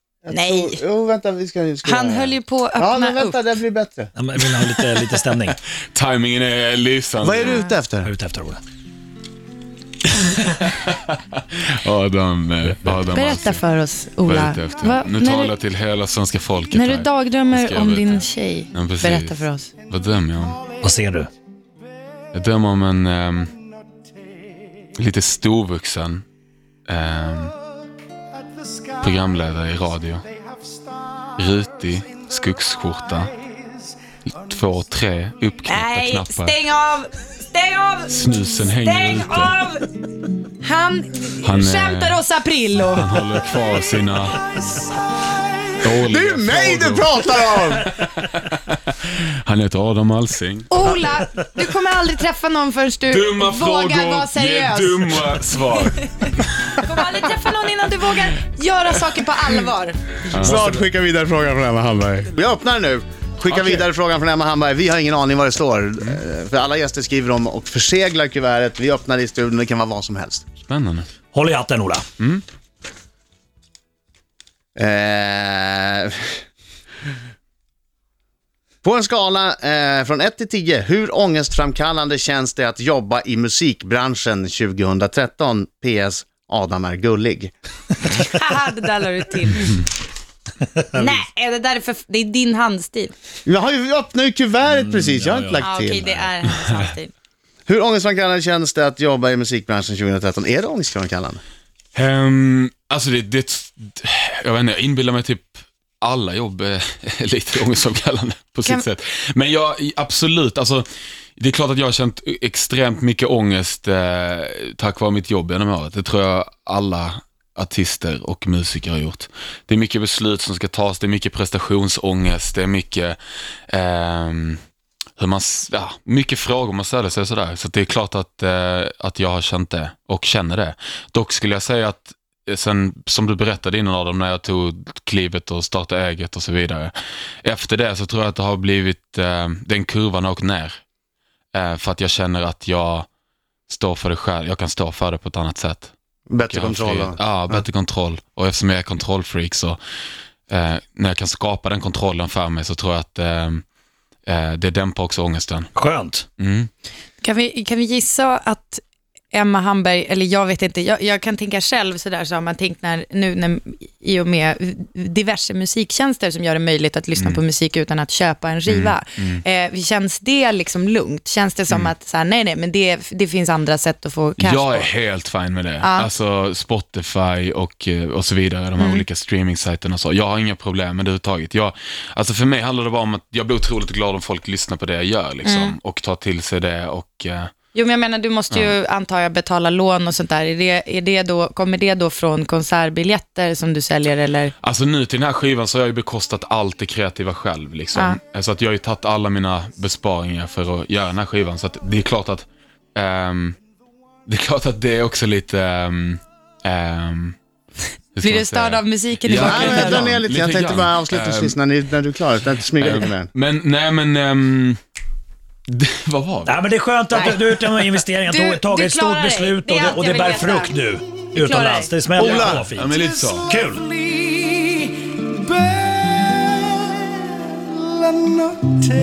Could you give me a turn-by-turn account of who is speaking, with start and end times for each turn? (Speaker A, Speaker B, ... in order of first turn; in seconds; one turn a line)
Speaker A: 0.2-4.1
Speaker B: 0.3-0.8
Speaker B: 1.9-3.4
Speaker C: 4.2-5.6
Speaker D: 5.9-7.6
Speaker A: 7.2-8.1
Speaker B: 7.5-7.7
Speaker C: 8.0-8.6
Speaker D: 10.1-13.6
Speaker B: 13.1-15.5
Speaker D: 14.3-20.6
Speaker B: 16.7-19.7
Speaker C: 20.8-21.3
Speaker D: 22.3-23.5
Speaker D: 24.9-26.2
Speaker D: 26.9-27.5
Speaker D: 29.0-30.2
Speaker D: 31.4-33.3
Speaker D: 34.2-36.5
Speaker B: 35.7-38.1
Speaker D: 38.1-39.6
Speaker B: 38.7-39.9
Speaker B: 40.6-43.2
Speaker D: 41.4-42.2
Speaker D: 42.9-44.5
Speaker D: 45.8-50.9
Speaker A: 46.0-47.9
Speaker B: 50.7-55.1
Speaker D: 53.1-56.9
Speaker B: 55.8-60.2
Speaker D: 60.3-60.8
Speaker A: 60.3-70.5
Speaker D: 63.5-63.8
Speaker D: 70.7-71.1
Speaker C: 71.3-72.1
Speaker D: 72.2-72.4
Speaker A: 74.8-76.4
Speaker A: 78.8-87.5
Speaker B: 88.2-89.8
Speaker B: 90.9-93.1
Speaker A: 93.5-96.1
Speaker C: 94.7-96.3
Speaker B: 95.6-97.1
Speaker D: 96.5-96.9
Speaker A: 97.7-101.4
Speaker D: 101.9-123.2
Speaker D: 123.7-124.6
Speaker D: 125.2-140.8
Speaker D: 141.5-143.1
Speaker D: 143.7-145.9
Speaker A: 146.3-147.6
Speaker D: 146.5-149.8
Speaker D: 150.5-153.6
Speaker D: 154.3-155.7
Speaker C: 155.8-156.3
Speaker D: 156.4-156.7
Speaker B: 157.2-174.9
Speaker D: 167.2-167.4
Speaker D: 168.7-169.4
Speaker D: 174.4-187.5
Speaker B: 175.8-176.1
Speaker B: 178.8-179.0
Speaker B: 185.4-185.8
Speaker B: 187.7-194.6
Speaker D: 194.6-203.6
Speaker B: 197.9-198.2
Speaker D: 204.3-207.4
Speaker D: 208.2-211.6
Speaker B: 208.2-210.1
Speaker A: 209.4-213.3
Speaker D: 212.8-214.8
Speaker D: 215.7-216.6
Speaker C: 216.5-222.9
Speaker B: 217.1-217.4
Speaker B: 218.3-220.7
Speaker B: 221.3-222.3
Speaker A: 222.2-222.7
Speaker D: 222.3-223.6
Speaker C: 223.5-223.9
Speaker A: 224.0-224.8
Speaker A: 225.5-228.8